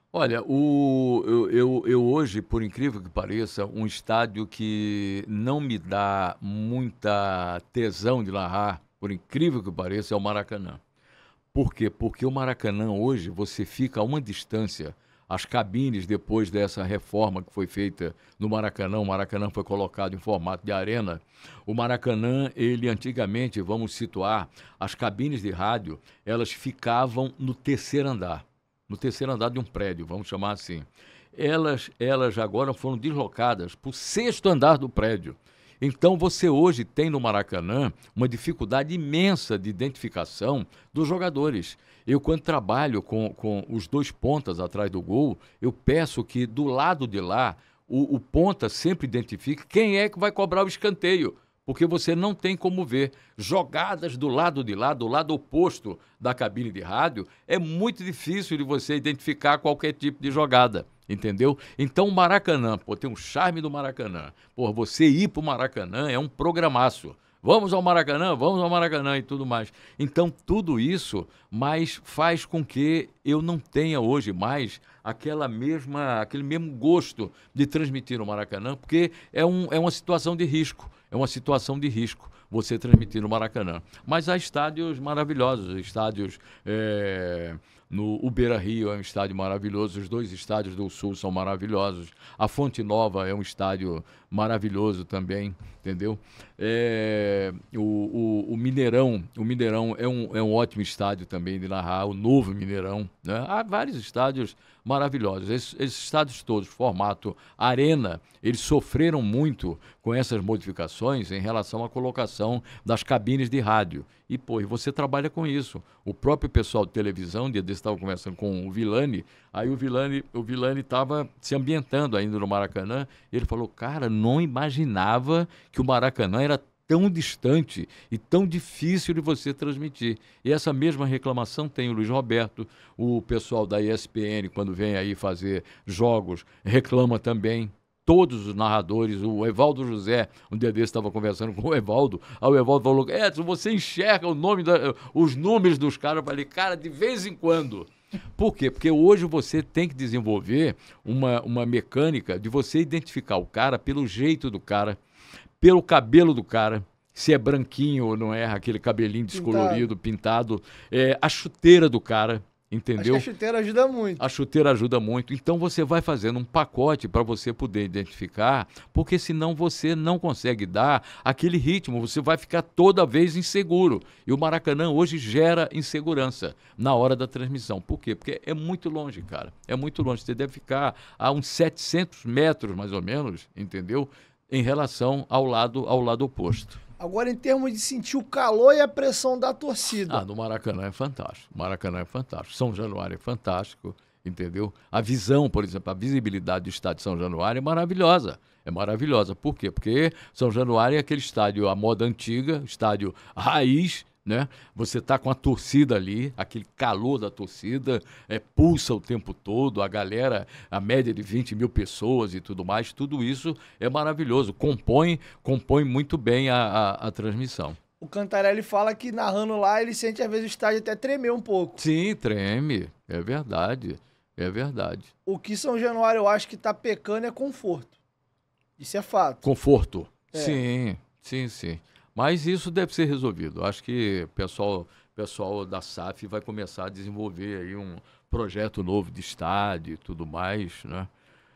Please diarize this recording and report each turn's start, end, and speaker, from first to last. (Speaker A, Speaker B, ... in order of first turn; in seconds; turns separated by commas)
Speaker A: 0.1-10.8, Speaker A: 11.5-155.0, Speaker A: 155.6-163.3, Speaker B: 159.3-159.9, Speaker B: 163.0-164.2, Speaker A: 164.2-186.8, Speaker B: 187.0-190.2, Speaker A: 190.0-217.8, Speaker B: 218.0-221.8, Speaker A: 221.8-225.1, Speaker B: 225.3-227.9, Speaker B: 228.8-229.5, Speaker A: 229.4-241.1, Speaker B: 230.3-230.6